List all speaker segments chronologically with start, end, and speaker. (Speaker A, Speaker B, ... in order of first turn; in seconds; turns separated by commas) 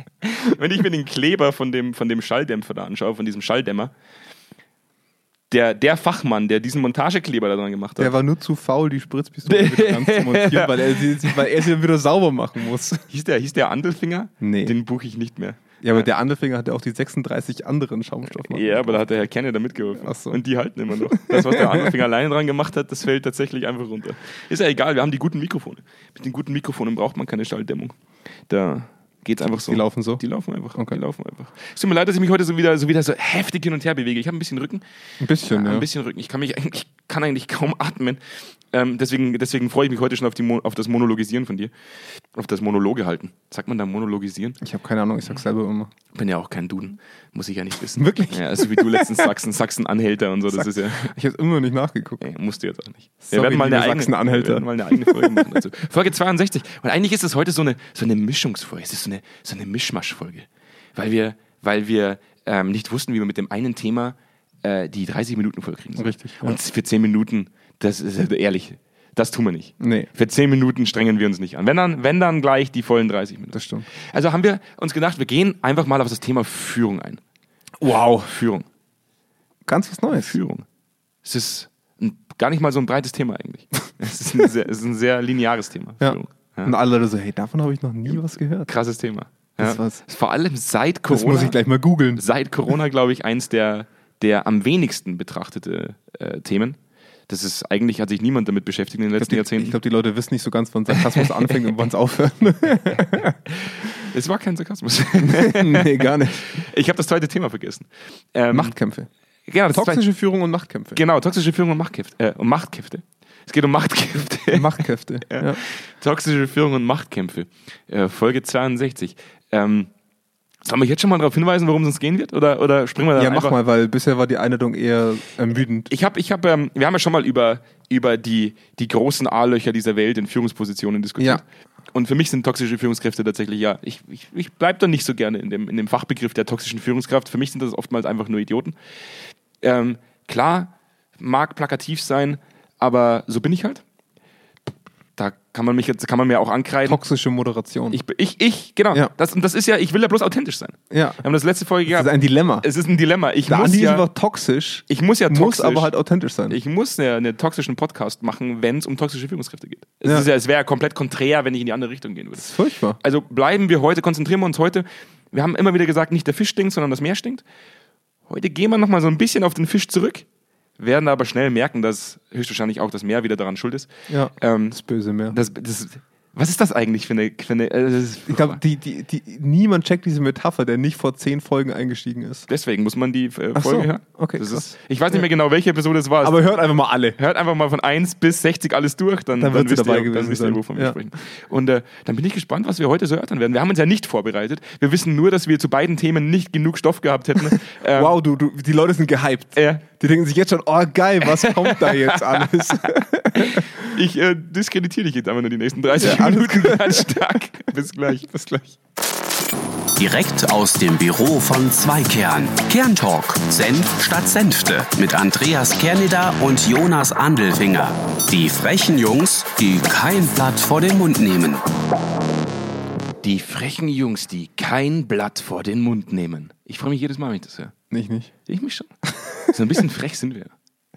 Speaker A: 0.2-3.9, Speaker A: 5.5-8.1, Speaker B: 8.0-13.1, Speaker A: 9.5-11.4, Speaker A: 13.1-16.1, Speaker B: 14.4-14.7, Speaker B: 15.8-19.1, Speaker A: 18.4-28.0, Speaker B: 20.0-20.4, Speaker B: 20.9-21.9, Speaker A: 28.5-34.8, Speaker B: 29.7-30.2, Speaker B: 30.7-31.0, Speaker B: 35.2-35.9, Speaker A: 35.4-38.2, Speaker A: 38.7-41.7, Speaker A: 42.3-44.6, Speaker B: 44.6-45.9, Speaker A: 46.1-51.1, Speaker B: 48.0-49.3, Speaker B: 50.5-52.2, Speaker A: 52.2-77.2, Speaker B: 53.2-55.6, Speaker B: 66.0-66.6, Speaker B: 69.8-70.1, Speaker B: 73.5-73.9, Speaker B: 77.8-78.3, Speaker A: 78.2-78.7, Speaker B: 79.7-80.4, Speaker A: 80.1-80.7, Speaker A: 81.2-86.7, Speaker B: 86.0-88.7, Speaker A: 88.7-91.6, Speaker B: 89.6-90.0, Speaker B: 91.1-92.2, Speaker A: 92.2-96.8, Speaker A: 97.3-99.8, Speaker B: 99.2-103.4, Speaker A: 101.0-101.5, Speaker A: 103.5-108.8, Speaker B: 105.2-106.5, Speaker B: 108.5-109.1, Speaker A: 109.5-110.0, Speaker B: 109.7-111.0, Speaker A: 111.0-119.9, Speaker B: 114.5-115.6, Speaker A: 120.7-123.6, Speaker B: 123.2-125.9, Speaker A: 125.9-138.8, Speaker B: 131.2-131.4, Speaker A: 139.6-143.8, Speaker A: 145.2-147.0, Speaker B: 146.9-148.0, Speaker A: 147.9-154.1, Speaker B: 150.9-151.2, Speaker B: 151.9-152.7, Speaker B: 153.5-156.6, Speaker A: 154.9-155.9, Speaker A: 156.5-167.4, Speaker B: 162.4-163.0, Speaker A: 168.3-170.3, Speaker A: 170.8-174.8, Speaker B: 174.1-175.4, Speaker A: 175.3-178.6, Speaker B: 178.3-182.5, Speaker A: 182.5-186.4, Speaker B: 183.6-185.2, Speaker B: 186.2-187.2, Speaker A: 187.2-198.2, Speaker B: 189.4-191.0, Speaker B: 197.5-203.9, Speaker A: 199.6-199.8, Speaker A: 201.2-208.2, Speaker B: 205.9-207.4, Speaker B: 208.1-208.8, Speaker C: 210.0-221.6, Speaker A: 223.2-227.7, Speaker B: 227.9-228.3, Speaker A: 228.5-228.9, Speaker A: 229.4-230.5